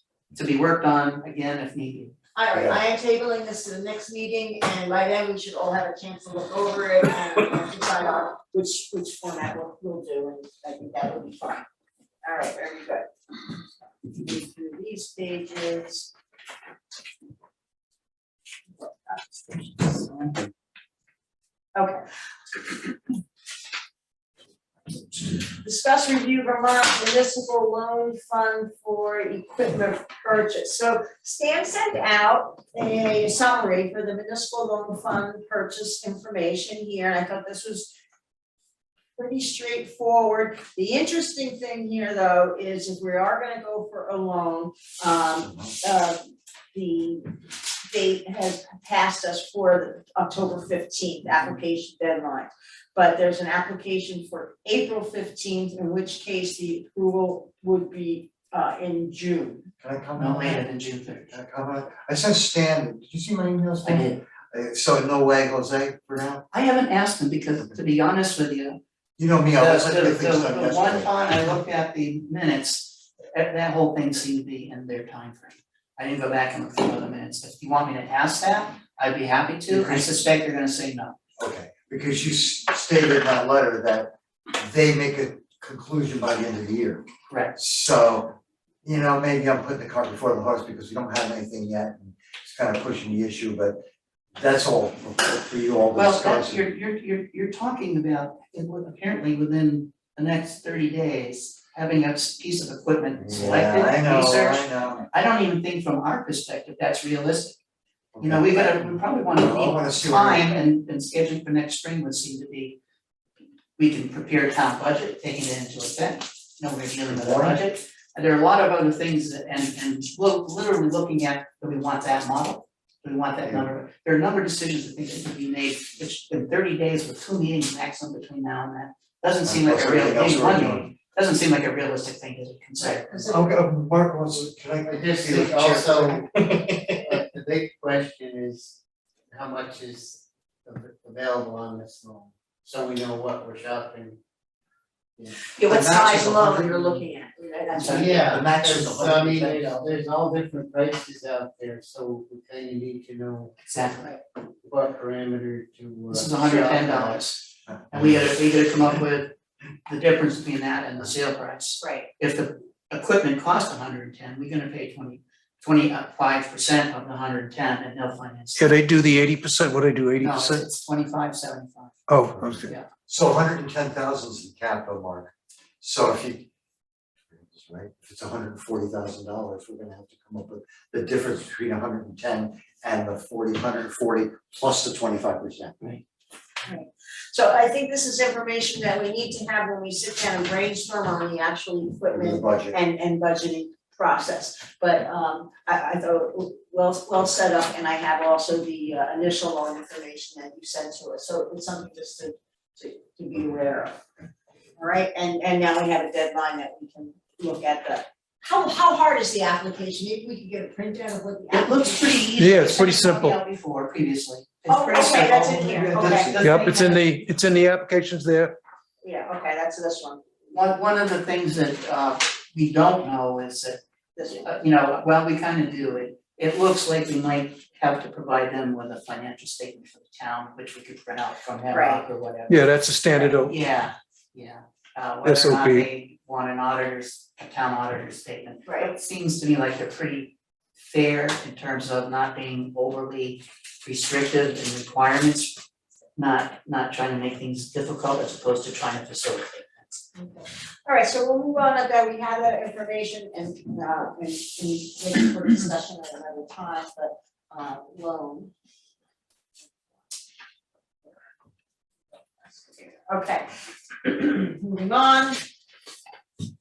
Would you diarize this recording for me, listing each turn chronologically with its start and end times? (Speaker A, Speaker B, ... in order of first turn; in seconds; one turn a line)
Speaker A: 0.3-2.1
Speaker B: 2.3-11.6
Speaker C: 2.5-2.8
Speaker B: 12.2-13.1
Speaker B: 14.0-16.1
Speaker B: 18.8-20.3
Speaker B: 21.7-22.0
Speaker B: 25.1-37.9
Speaker B: 39.1-59.6
Speaker C: 59.8-60.6
Speaker A: 60.2-61.3
Speaker C: 61.3-66.5
Speaker A: 63.8-64.2
Speaker A: 66.5-68.8
Speaker C: 69.2-71.5
Speaker A: 69.5-81.2
Speaker C: 79.7-80.1
Speaker C: 81.4-93.8
Speaker A: 87.3-87.5
Speaker C: 94.3-96.7
Speaker A: 96.0-107.6
Speaker C: 103.2-105.1
Speaker C: 108.1-110.6
Speaker A: 108.2-112.8
Speaker A: 113.8-133.3
Speaker C: 117.1-117.6
Speaker C: 123.4-123.7
Speaker C: 129.4-130.9
Speaker B: 132.8-133.4
Speaker C: 133.3-136.3
Speaker D: 134.9-138.8
Speaker D: 139.3-144.2
Speaker D: 145.2-145.4
Speaker B: 145.5-148.3
Speaker C: 145.7-147.0
Speaker A: 147.7-148.1
Speaker C: 147.8-149.8
Speaker D: 147.9-153.5
Speaker A: 153.6-154.1
Speaker D: 154.7-157.2
Speaker A: 156.1-159.3
Speaker C: 157.7-158.1
Speaker A: 159.8-168.8
Speaker B: 161.8-162.1
Speaker E: 168.6-170.6
Speaker A: 170.2-172.0
Speaker E: 172.1-172.7
Speaker C: 172.3-176.5
Speaker C: 177.3-186.0
Speaker B: 186.7-204.0
Speaker C: 192.1-192.8
Speaker B: 204.8-212.9
Speaker A: 211.5-217.2
Speaker E: 212.4-213.4
Speaker B: 214.7-216.3
Speaker C: 215.2-216.5
Speaker E: 216.3-218.6
Speaker B: 219.0-220.2
Speaker A: 220.5-223.8
Speaker B: 224.2-224.5
Speaker A: 224.3-245.6
Speaker B: 231.7-232.0
Speaker E: 232.5-233.5
Speaker E: 235.2-235.9
Speaker B: 238.7-238.9
Speaker A: 246.2-250.0
Speaker B: 250.1-258.5
Speaker B: 262.4-263.4
Speaker B: 264.0-265.4